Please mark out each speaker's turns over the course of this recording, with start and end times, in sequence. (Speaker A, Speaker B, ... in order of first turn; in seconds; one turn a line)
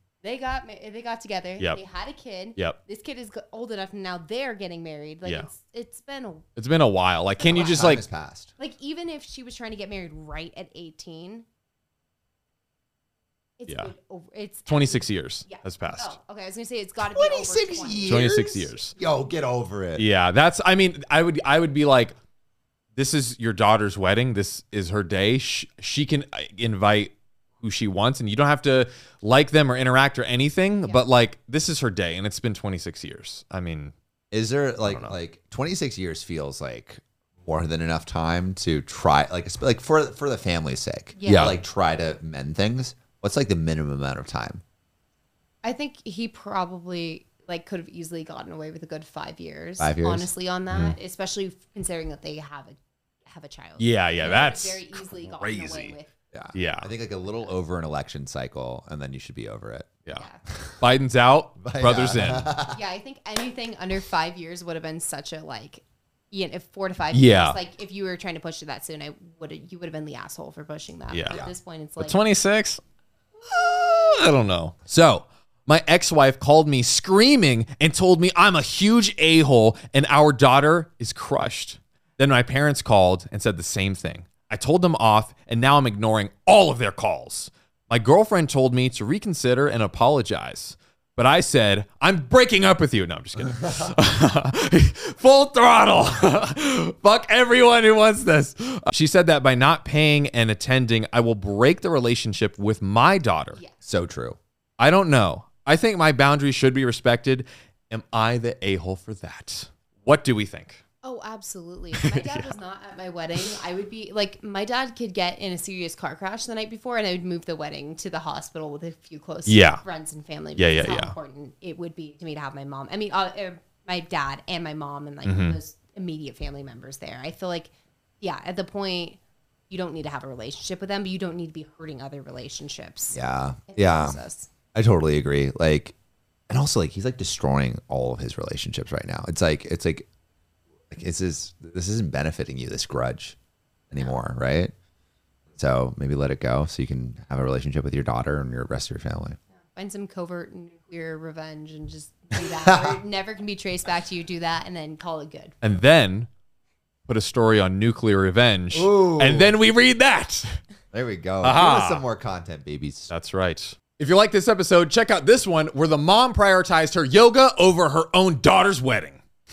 Speaker A: 0.2-6.5
Speaker B: 6.6-8.0
Speaker A: 7.4-8.0
Speaker C: 7.4-8.5
Speaker A: 8.6-11.5
Speaker A: 13.6-18.3
Speaker B: 14.7-16.1
Speaker C: 17.0-20.1
Speaker B: 18.0-18.9
Speaker B: 20.0-22.1
Speaker B: 22.9-33.9
Speaker C: 34.3-44.6
Speaker B: 34.8-35.1
Speaker A: 41.2-41.6
Speaker B: 41.3-41.6
Speaker A: 45.6-56.1
Speaker C: 49.8-50.3
Speaker B: 50.7-51.0
Speaker B: 53.8-56.0
Speaker C: 56.3-59.9
Speaker B: 56.5-56.9
Speaker A: 60.1-60.4
Speaker B: 60.8-62.5
Speaker C: 61.6-62.8
Speaker A: 62.7-72.2
Speaker B: 67.1-67.6
Speaker B: 71.1-71.5
Speaker B: 72.0-72.8
Speaker B: 73.4-103.6
Speaker A: 103.5-103.8
Speaker C: 103.8-104.4
Speaker B: 104.8-110.8
Speaker A: 111.0-129.2
Speaker B: 111.9-112.5
Speaker B: 119.5-119.8
Speaker B: 120.6-121.1
Speaker B: 125.2-125.6
Speaker A: 129.7-134.5
Speaker C: 133.1-134.2
Speaker C: 134.7-135.9
Speaker C: 136.5-140.1
Speaker C: 140.9-143.4
Speaker C: 143.9-144.7
Speaker C: 145.6-149.4
Speaker A: 149.8-155.5
Speaker C: 152.3-153.0
Speaker B: 155.6-156.3
Speaker B: 157.1-160.6
Speaker C: 158.7-159.6
Speaker C: 160.9-163.1
Speaker B: 161.4-162.1
Speaker B: 163.1-169.2